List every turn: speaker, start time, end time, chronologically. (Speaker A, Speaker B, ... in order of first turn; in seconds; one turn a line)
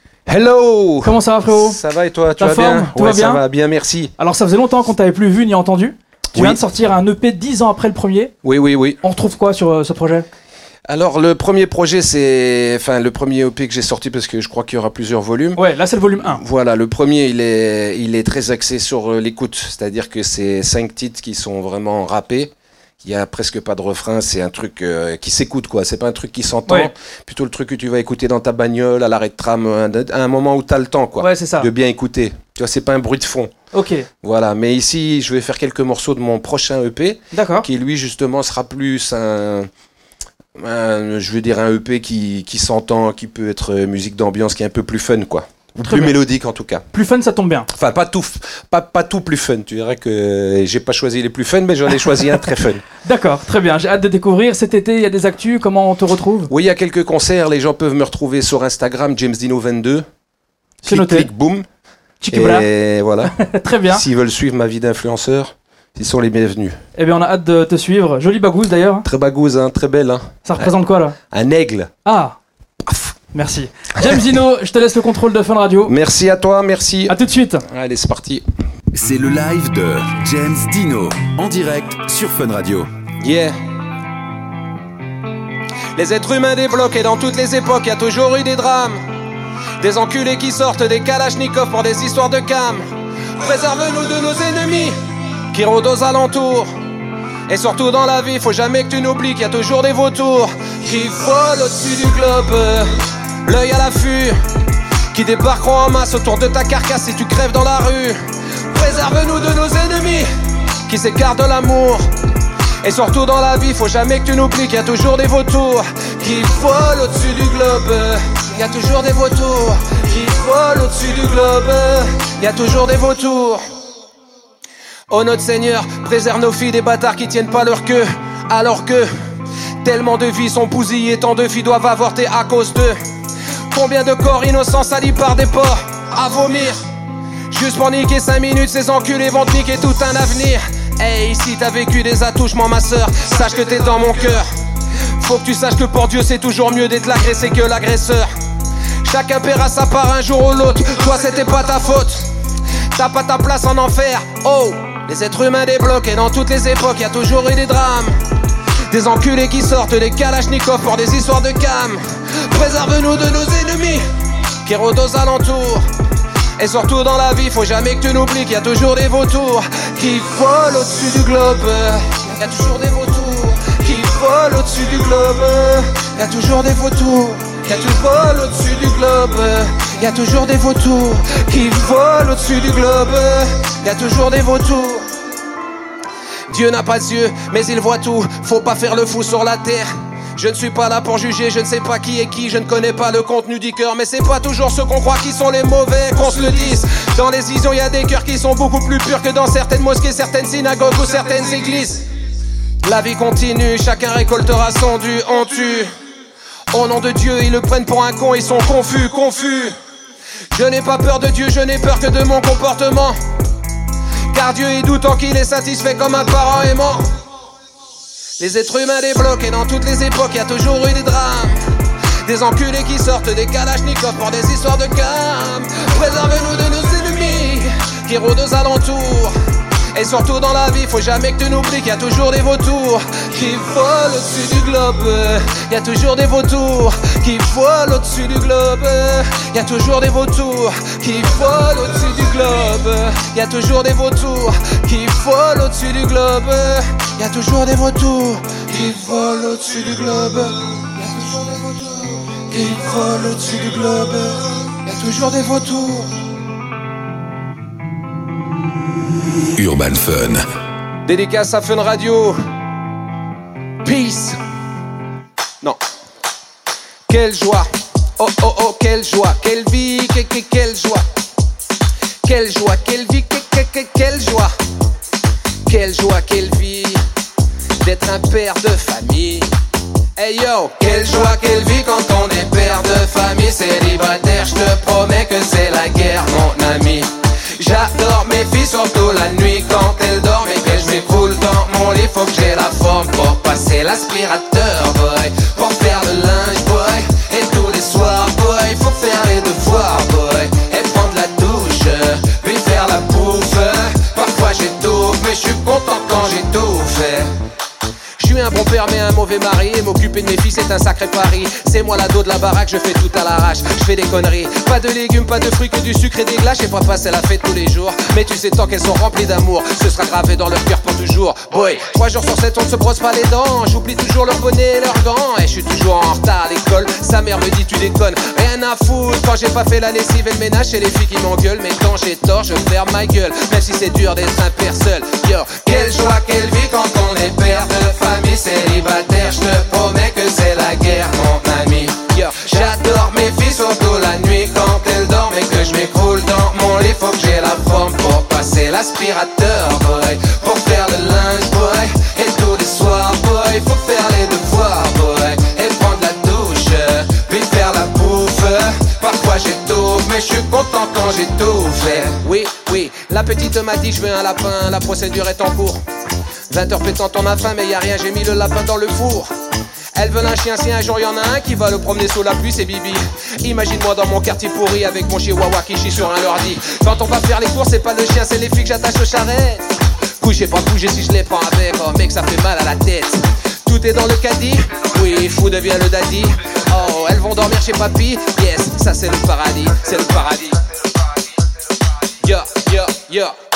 Speaker A: 0.3-4.1
Speaker B: 1.0-1.8
Speaker B: 2.4-3.4
Speaker B: 4.2-8.3
Speaker A: 8.4-9.0
Speaker B: 9.0-10.2
Speaker A: 10.9-15.6
Speaker B: 15.6-16.4
Speaker A: 16.2-22.5
Speaker A: 23.0-33.5
Speaker B: 31.2-31.7
Speaker B: 33.7-34.1
Speaker A: 34.2-39.7
Speaker B: 37.3-37.7
Speaker A: 40.6-46.8
Speaker B: 45.8-46.2
Speaker B: 46.9-47.7
Speaker A: 47.7-52.8
Speaker B: 53.0-56.5
Speaker A: 56.5-60.0
Speaker B: 60.8-61.3
Speaker A: 60.9-61.7
Speaker B: 62.2-62.7
Speaker A: 62.3-63.4
Speaker B: 63.3-64.0
Speaker A: 63.9-66.8
Speaker B: 67.0-69.0
Speaker A: 69.0-70.7
Speaker B: 70.5-71.2
Speaker A: 71.3-71.9
Speaker B: 72.0-72.4
Speaker A: 72.9-73.1
Speaker B: 73.3-75.9
Speaker A: 75.9-78.4
Speaker B: 77.1-77.6
Speaker C: 78.9-82.9
Speaker A: 83.2-83.5
Speaker A: 86.0-89.0
Speaker A: 89.8-92.8
Speaker A: 93.4-94.9
Speaker A: 95.5-96.7
Speaker A: 97.5-102.9
Speaker A: 103.4-104.4
Speaker A: 105.1-108.2
Speaker A: 108.7-110.3
Speaker A: 110.9-112.0
Speaker A: 112.8-123.6
Speaker A: 125.1-129.1
Speaker A: 129.8-133.0
Speaker A: 133.7-136.8
Speaker A: 137.5-144.4
Speaker A: 145.2-148.3
Speaker A: 149.0-152.3
Speaker A: 152.9-158.1
Speaker A: 158.9-164.0
Speaker A: 164.6-165.8
Speaker A: 166.6-185.1
Speaker A: 186.5-202.1
Speaker A: 202.8-205.9
Speaker A: 206.7-209.7
Speaker A: 210.5-213.2
Speaker A: 214.3-217.1
Speaker A: 218.4-221.6
Speaker A: 222.2-229.3
Speaker A: 229.9-256.1
Speaker C: 259.6-260.4
Speaker A: 261.1-262.4
Speaker A: 263.8-264.4
Speaker A: 267.1-267.7
Speaker A: 268.2-271.0
Speaker A: 272.2-274.5
Speaker A: 275.7-277.0
Speaker A: 277.8-279.5
Speaker A: 280.2-307.3
Speaker A: 308.2-365.8
Speaker A: 366.5-369.3
Speaker A: 369.9-379.6
Speaker A: 380.2-390.6
Speaker A: 392.2-393.4